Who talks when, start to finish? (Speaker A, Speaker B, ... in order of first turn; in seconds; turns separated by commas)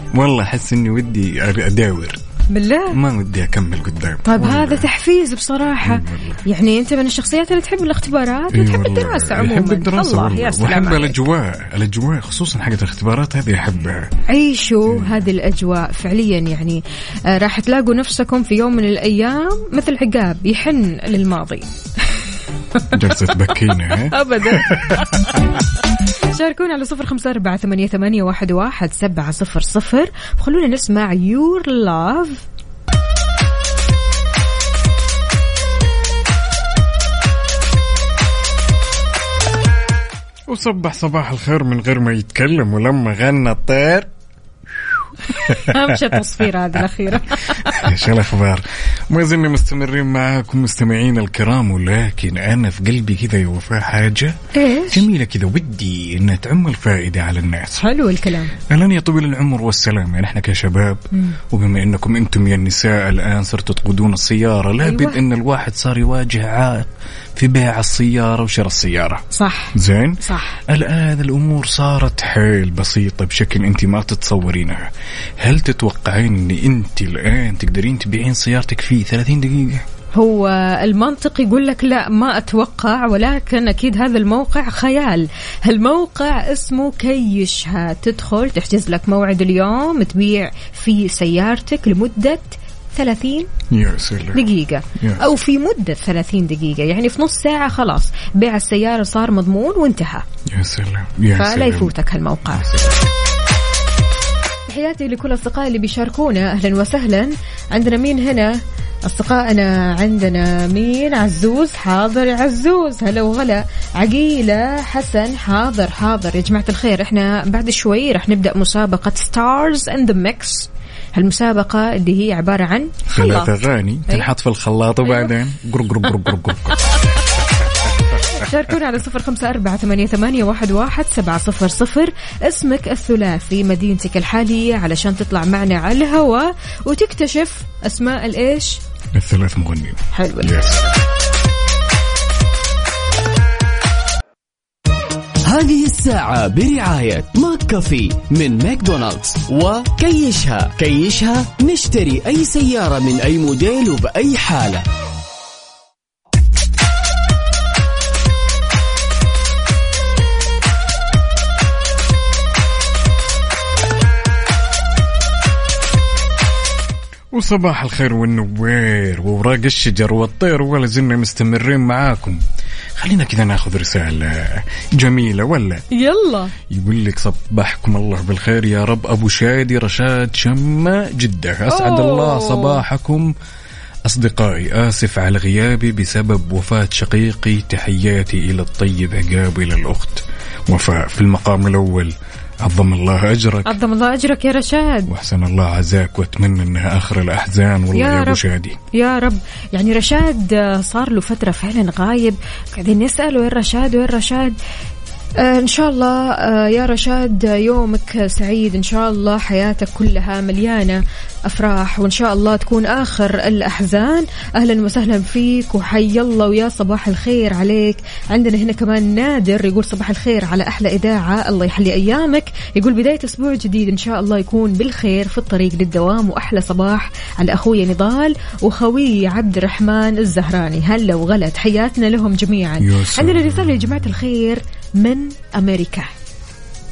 Speaker A: 0.1-2.2, Speaker B: 2.5-3.0, Speaker A: 2.9-4.9, Speaker B: 4.3-11.2, Speaker A: 5.8-6.4, Speaker A: 8.5-14.1, Speaker B: 14.3-21.7, Speaker A: 14.9-15.2, Speaker A: 22.9-25.1, Speaker B: 23.8-25.3, Speaker B: 26.3-32.4, Speaker A: 40.5-44.1, Speaker B: 45.3-47.8, Speaker A: 45.5-45.8, Speaker A: 47.7-57.8, Speaker B: 54.5-55.1, Speaker B: 57.8-58.5, Speaker A: 58.7-79.9, Speaker B: 64.8-65.2, Speaker B: 69.3-70.6, Speaker B: 80.2-93.5, Speaker A: 93.7-94.5, Speaker B: 94.3-100.2, Speaker A: 95.0-95.3, Speaker A: 100.5-102.0, Speaker B: 101.4-102.7, Speaker A: 102.5-102.9, Speaker B: 104.7-123.6, Speaker A: 123.1-126.8, Speaker B: 125.1-125.3, Speaker B: 128.3-138.8, Speaker A: 139.2-140.8, Speaker B: 140.1-140.5, Speaker C: 145.5-154.9, Speaker A: 167.3-172.4, Speaker A: 173.0-175.8, Speaker B: 175.9-176.5, Speaker A: 176.7-183.3, Speaker B: 181.7-182.8, Speaker A: 184.1-193.7, Speaker B: 193.7-195.1, Speaker A: 195.1-198.8, Speaker B: 197.9-198.4, Speaker B: 198.9-204.6, Speaker B: 205.4-236.1, Speaker A: 232.8-234.1